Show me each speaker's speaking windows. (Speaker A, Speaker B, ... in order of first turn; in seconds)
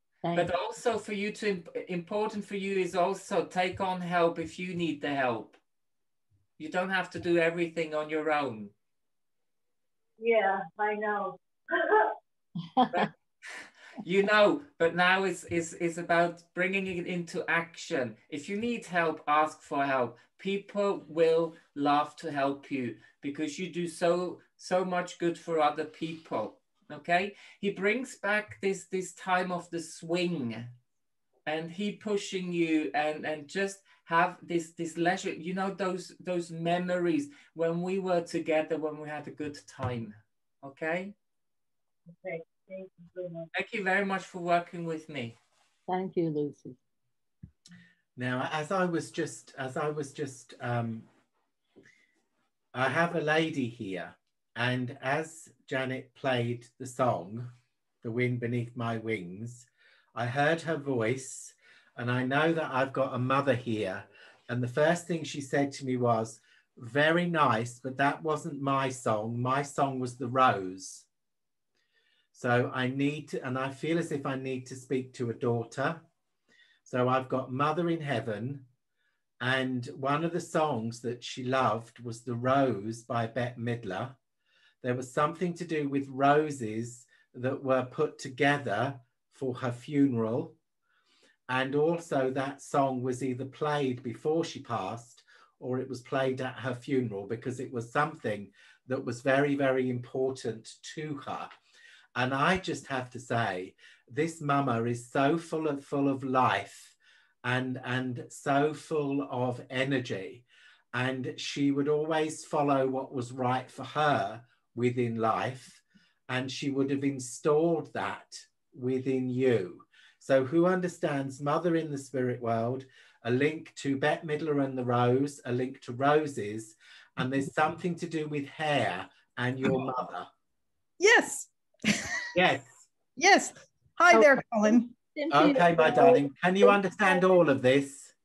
Speaker A: 0.2-0.5, 12.8-13.1, 45.9-46.8, 134.1-136.8
Speaker B: 0.3-5.6, 6.6-8.7, 14.0-30.7, 31.4-41.1, 43.5-45.4
Speaker C: 10.2-12.1, 42.2-43.5
Speaker D: 48.1-51.1, 52.7-57.5, 58.0-71.1, 72.3-76.0, 76.8-78.7, 79.4-84.2, 84.8-90.6, 91.5-101.5, 102.1-130.3, 132.3-132.9, 135.3-138.1
Speaker E: 131.0-132.3, 133.2-134.9